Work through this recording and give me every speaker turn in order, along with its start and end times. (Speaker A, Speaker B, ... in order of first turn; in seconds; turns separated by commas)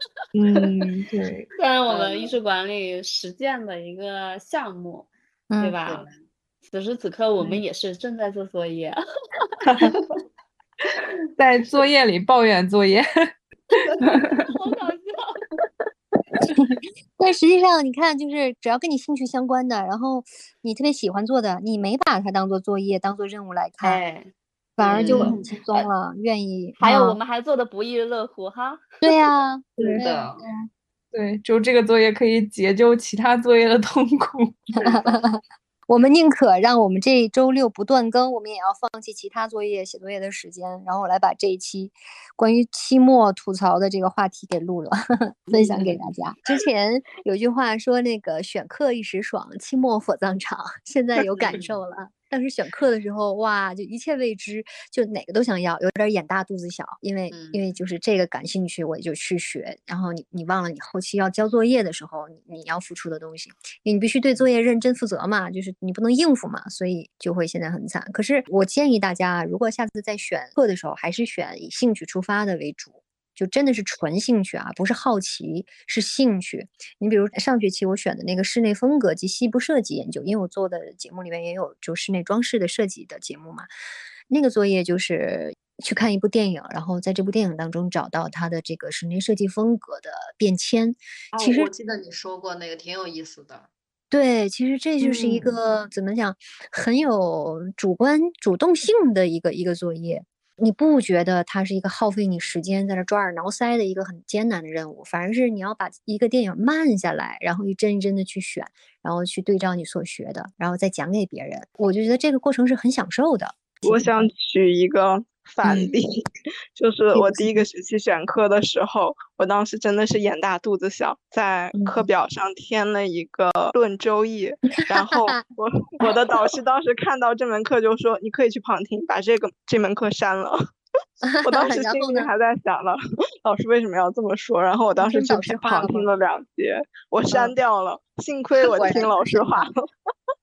Speaker A: 0.3-1.5, Speaker B: 1.6-6.1, Speaker C: 1.9-2.4, Speaker D: 5.5-5.8, Speaker C: 5.8-6.1, Speaker B: 6.7-9.5, Speaker A: 9.6-9.9, Speaker A: 11.4-13.0, Speaker A: 14.0-14.5, Speaker B: 14.5-15.4, Speaker D: 16.4-24.0, Speaker B: 23.8-24.3, Speaker D: 24.8-27.2, Speaker B: 24.8-25.8, Speaker C: 24.8-25.4, Speaker B: 26.8-28.8, Speaker D: 29.0-29.6, Speaker A: 29.8-34.8, Speaker C: 30.0-30.4, Speaker D: 34.8-35.4, Speaker D: 35.9-83.7, Speaker C: 51.4-51.8, Speaker C: 57.3-57.6, Speaker D: 84.3-91.7, Speaker C: 91.3-93.7, Speaker D: 94.1-114.1, Speaker A: 95.2-95.5, Speaker E: 113.8-116.2, Speaker D: 115.6-115.9, Speaker E: 116.7-130.6, Speaker D: 117.1-117.6, Speaker D: 121.8-122.0, Speaker D: 124.8-125.4, Speaker D: 131.2-132.3, Speaker E: 131.4-139.8, Speaker D: 135.0-136.1, Speaker D: 138.7-139.7